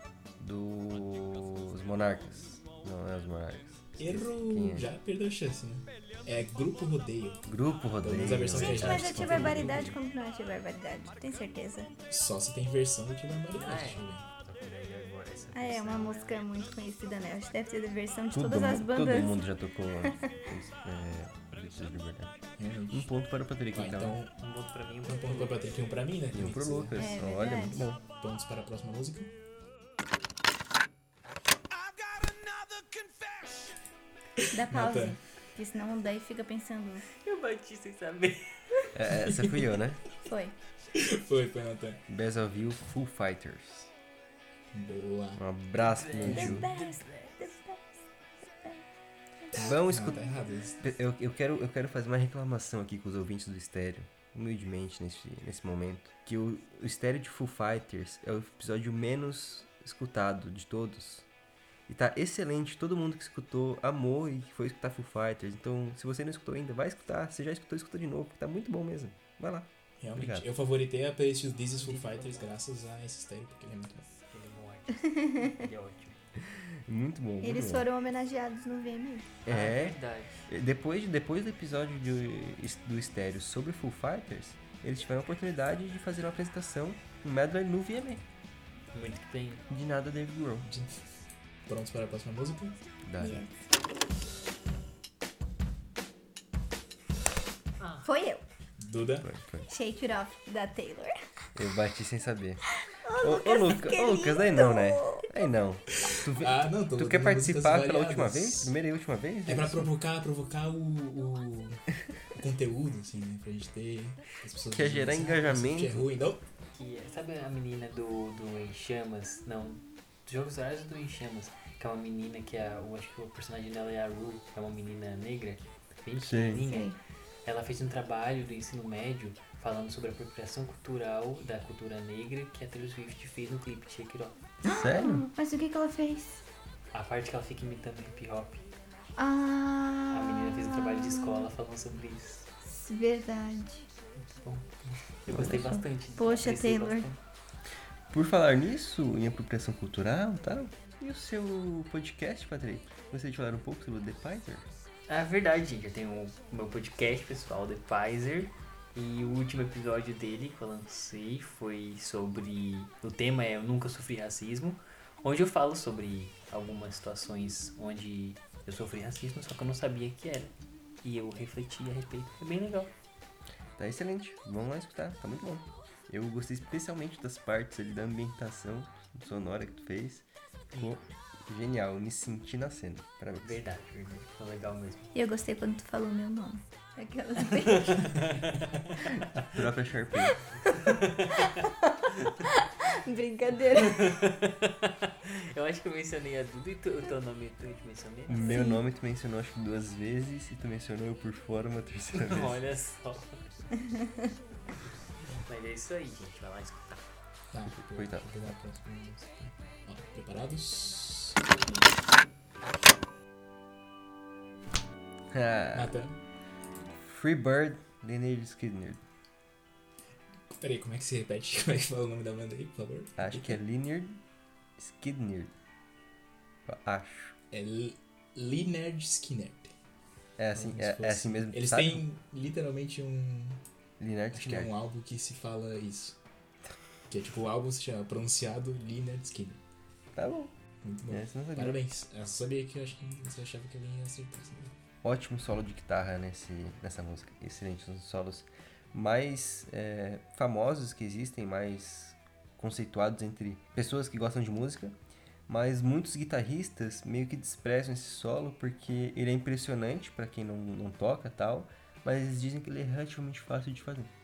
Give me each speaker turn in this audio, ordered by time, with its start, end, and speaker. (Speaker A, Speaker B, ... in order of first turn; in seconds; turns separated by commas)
Speaker A: 0.4-4.9, Speaker B: 4.0-7.4, Speaker A: 7.5-9.9, Speaker B: 8.0-9.9, Speaker C: 8.6-11.9, Speaker B: 12.1-14.2, Speaker D: 13.5-16.4, Speaker C: 15.5-19.4, Speaker A: 18.3-24.2, Speaker C: 20.1-20.3, Speaker B: 22.6-23.1, Speaker B: 23.7-24.3, Speaker D: 24.4-26.1, Speaker B: 25.0-27.1, Speaker A: 26.3-28.0, Speaker C: 26.9-27.9, Speaker B: 28.2-29.3, Speaker E: 31.7-33.7, Speaker C: 34.5-37.0, Speaker B: 34.5-35.2, Speaker D: 37.2-38.8, Speaker A: 38.9-40.0, Speaker C: 40.2-40.5, Speaker B: 40.9-42.0, Speaker A: 42.1-43.9, Speaker B: 44.7-45.4, Speaker A: 45.4-46.7, Speaker D: 45.8-47.0, Speaker B: 46.3-46.5, Speaker C: 46.3-47.9, Speaker C: 48.5-48.8, Speaker B: 49.5-50.8, Speaker A: 49.5-50.2, Speaker A: 50.8-61.2, Speaker A: 61.9-70.5, Speaker B: 70.0-74.1, Speaker D: 71.8-72.5, Speaker D: 74.3-76.2, Speaker C: 75.0-75.6, Speaker A: 76.5-77.8, Speaker C: 77.4-79.3, Speaker A: 79.5-80.0, Speaker D: 79.5-80.4, Speaker A: 80.5-88.2, Speaker D: 88.9-89.6, Speaker A: 89.7-90.7, Speaker B: 90.6-91.0, Speaker B: 91.7-92.8, Speaker A: 93.0-93.4, Speaker C: 93.2-93.5, Speaker D: 97.8-98.1, Speaker C: 98.0-98.4, Speaker B: 98.8-99.3, Speaker A: 99.2-99.7, Speaker C: 99.7-101.1, Speaker A: 101.5-102.6, Speaker C: 102.7-105.3, Speaker A: 103.2-109.9, Speaker B: 106.3-108.7, Speaker B: 109.5-111.8, Speaker B: 112.3-116.4, Speaker A: 114.7-116.0, Speaker D: 116.7-134.4, Speaker A: 126.2-126.6, Speaker C: 126.6-127.0, Speaker A: 134.6-135.2, Speaker C: 134.6-136.4, Speaker D: 136.9-138.6, Speaker C: 139.2-141.5, Speaker D: 140.1-142.5, Speaker C: 142.6-143.8, Speaker D: 144.2-147.2, Speaker A: 145.3-145.8, Speaker C: 146.2-147.1, Speaker A: 148.1-154.7, Speaker D: 155.1-172.9, Speaker A: 173.8-183.6, Speaker D: 183.4-185.1, Speaker C: 185.1-188.4, Speaker D: 187.6-188.6, Speaker A: 189.4-190.4, Speaker D: 190.8-191.5, Speaker C: 191.6-194.1, Speaker D: 193.8-198.6, Speaker A: 198.3-202.6, Speaker C: 198.4-198.8, Speaker D: 202.1-203.5, Speaker D: 205.4-207.0, Speaker B: 207.5-211.5, Speaker A: 207.7-208.5, Speaker A: 215.3-215.9, Speaker B: 215.7-216.2, Speaker A: 217.0-219.0, Speaker B: 220.5-223.6, Speaker A: 223.2-224.2, Speaker A: 224.8-225.5, Speaker A: 226.7-227.3, Speaker B: 227.5-229.7, Speaker A: 230.4-232.0, Speaker B: 230.5-233.6, Speaker A: 234.0-234.7, Speaker B: 234.3-236.2, Speaker B: 237.1-239.6, Speaker A: 240.2-240.5, Speaker B: 240.8-244.7, Speaker A: 241.1-241.8, Speaker A: 245.0-254.9, Speaker A: 255.5-264.1